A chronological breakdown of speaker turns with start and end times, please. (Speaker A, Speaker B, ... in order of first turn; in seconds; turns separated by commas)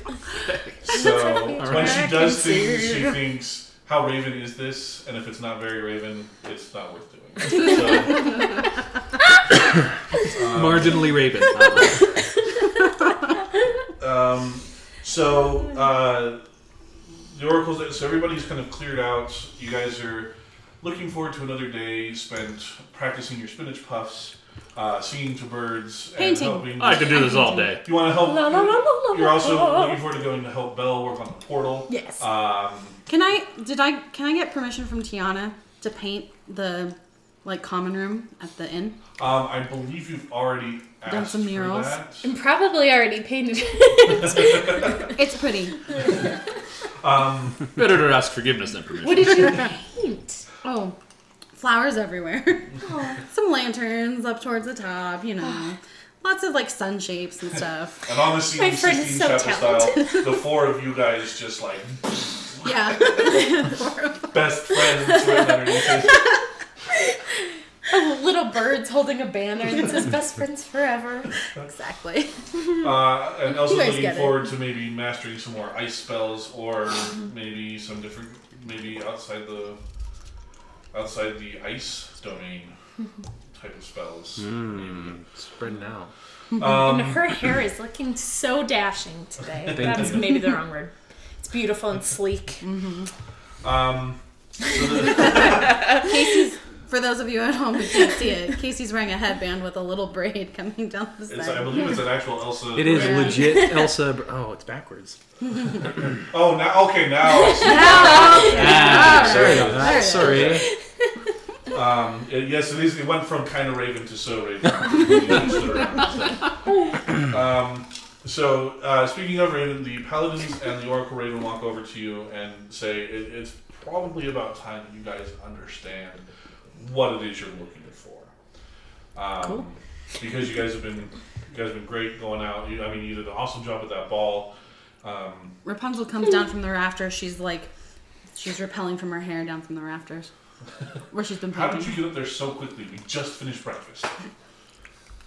Speaker A: 0.5-0.8, Speaker B: 0.8-8.6, Speaker C: 0.9-2.3, Speaker A: 1.6-2.0, Speaker D: 2.0-3.2, Speaker B: 10.2-11.2, Speaker A: 10.4-12.2, Speaker C: 11.7-12.6, Speaker B: 14.0-16.4, Speaker B: 17.2-27.2, Speaker D: 26.2-27.7, Speaker A: 26.8-27.9, Speaker B: 27.8-33.0, Speaker C: 28.1-30.0, Speaker C: 31.9-32.2, Speaker D: 33.1-39.0, Speaker B: 39.2-42.3, Speaker D: 41.0-42.0, Speaker C: 42.2-45.1, Speaker B: 44.1-45.0, Speaker D: 45.1-45.8, Speaker B: 47.0-47.7, Speaker A: 47.7-49.6, Speaker C: 49.0-50.4, Speaker D: 50.6-51.0, Speaker D: 51.6-58.0, Speaker C: 52.8-53.2, Speaker B: 58.1-63.2, Speaker C: 58.5-60.3, Speaker D: 62.6-64.5, Speaker B: 64.3-66.3, Speaker C: 65.3-66.2, Speaker C: 67.8-71.3, Speaker D: 71.6-72.3, Speaker B: 72.8-79.8, Speaker C: 73.5-74.5, Speaker B: 80.9-82.7, Speaker B: 83.5-85.2, Speaker E: 84.4-86.1, Speaker B: 86.6-87.5, Speaker C: 86.7-92.6, Speaker E: 89.7-90.5, Speaker D: 92.6-93.1, Speaker B: 93.6-95.8, Speaker C: 95.3-96.0, Speaker D: 95.3-102.1, Speaker B: 101.3-103.5, Speaker E: 102.7-105.2, Speaker D: 102.8-103.7, Speaker C: 103.4-103.9, Speaker B: 106.3-110.7, Speaker C: 107.4-110.6, Speaker D: 107.7-110.5, Speaker A: 108.5-109.9, Speaker E: 108.8-110.7, Speaker B: 111.7-116.5, Speaker B: 117.2-126.2, Speaker B: 126.8-128.3, Speaker B: 129.2-134.5, Speaker B: 135.0-135.5, Speaker D: 135.7-137.7, Speaker D: 138.3-140.3, Speaker D: 141.1-142.0, Speaker B: 141.5-144.1